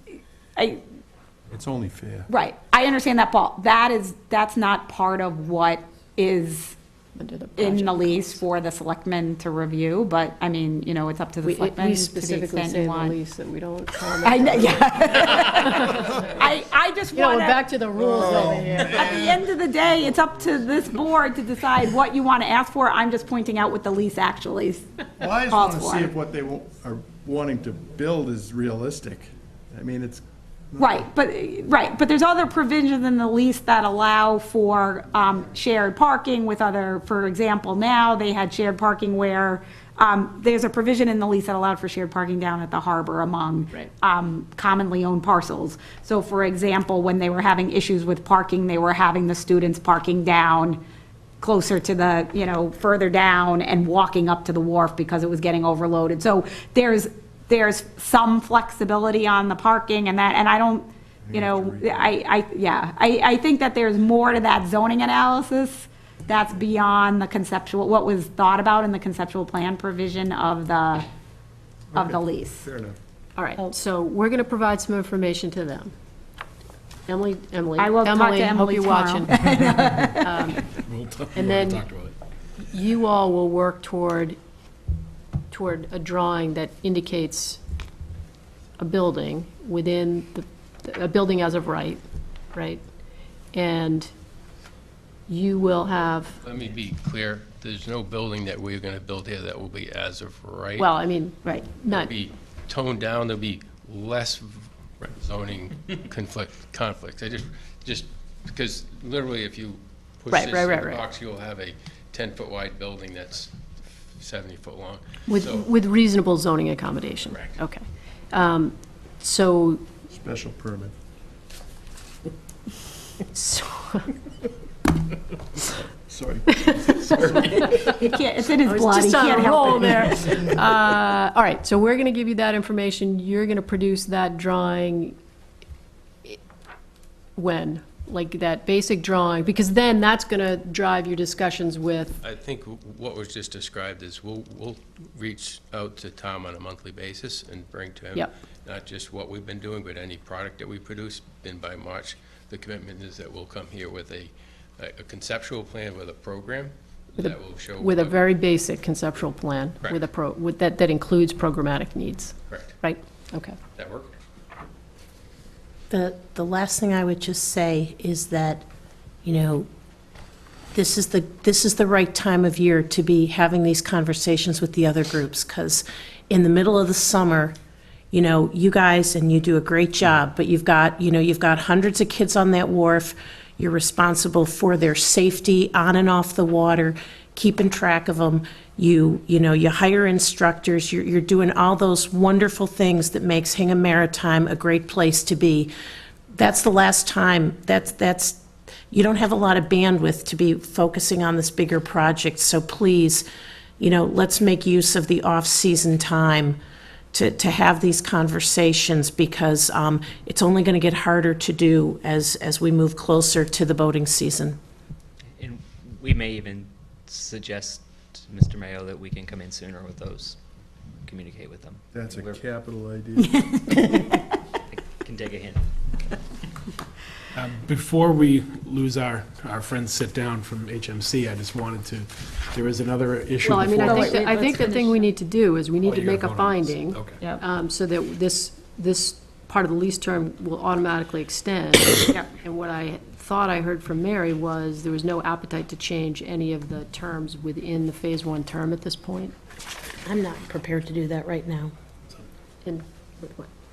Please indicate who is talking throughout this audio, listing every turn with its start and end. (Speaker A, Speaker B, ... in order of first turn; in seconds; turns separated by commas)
Speaker A: 0.6-0.8, Speaker B: 1.5-2.3, Speaker A: 2.3-6.8, Speaker C: 7.2-8.3, Speaker A: 7.5-13.2, Speaker C: 11.4-16.2, Speaker A: 14.2-17.6, Speaker C: 17.1-18.9, Speaker B: 17.9-19.4, Speaker A: 18.7-24.9, Speaker B: 25.2-31.0, Speaker A: 25.5-26.1, Speaker A: 30.8-50.8, Speaker A: 51.4-71.0, Speaker B: 61.3-62.1, Speaker B: 71.9-73.0, Speaker A: 71.9-72.6, Speaker C: 73.4-75.9, Speaker C: 77.1-79.3, Speaker A: 77.8-80.2, Speaker C: 80.0-80.7, Speaker D: 80.8-82.1, Speaker C: 81.3-81.9, Speaker C: 82.6-84.4, Speaker C: 85.5-87.6, Speaker C: 88.8-92.0, Speaker C: 92.5-92.8, Speaker C: 93.5-94.1, Speaker C: 95.3-96.4, Speaker E: 96.4-100.9, Speaker C: 100.8-102.1, Speaker E: 101.9-113.5, Speaker C: 110.3-111.0, Speaker E: 114.2-115.7, Speaker C: 115.3-119.8, Speaker B: 120.1-120.9, Speaker C: 123.3-124.1, Speaker B: 126.1-127.7, Speaker C: 126.7-127.5, Speaker A: 127.4-130.4, Speaker C: 128.6-135.1, Speaker C: 137.3-142.2, Speaker E: 142.2-158.2, Speaker C: 157.2-163.6, Speaker E: 162.5-162.8, Speaker E: 163.8-164.1, Speaker F: 165.9-168.7, Speaker F: 169.2-169.7, Speaker F: 170.7-177.5, Speaker F: 178.1-195.7, Speaker F: 196.3-203.2, Speaker F: 203.8-206.6, Speaker F: 207.1-214.6, Speaker G: 215.4-220.4, Speaker G: 221.0-222.4, Speaker B: 221.9-223.4, Speaker A: 223.3-224.2, Speaker G: 224.7-225.6, Speaker D: 227.3-234.0, Speaker C: 233.4-249.3, Speaker A: 233.8-235.1, Speaker D: 235.9-236.4, Speaker F: 250.0-251.7, Speaker C: 252.6-253.5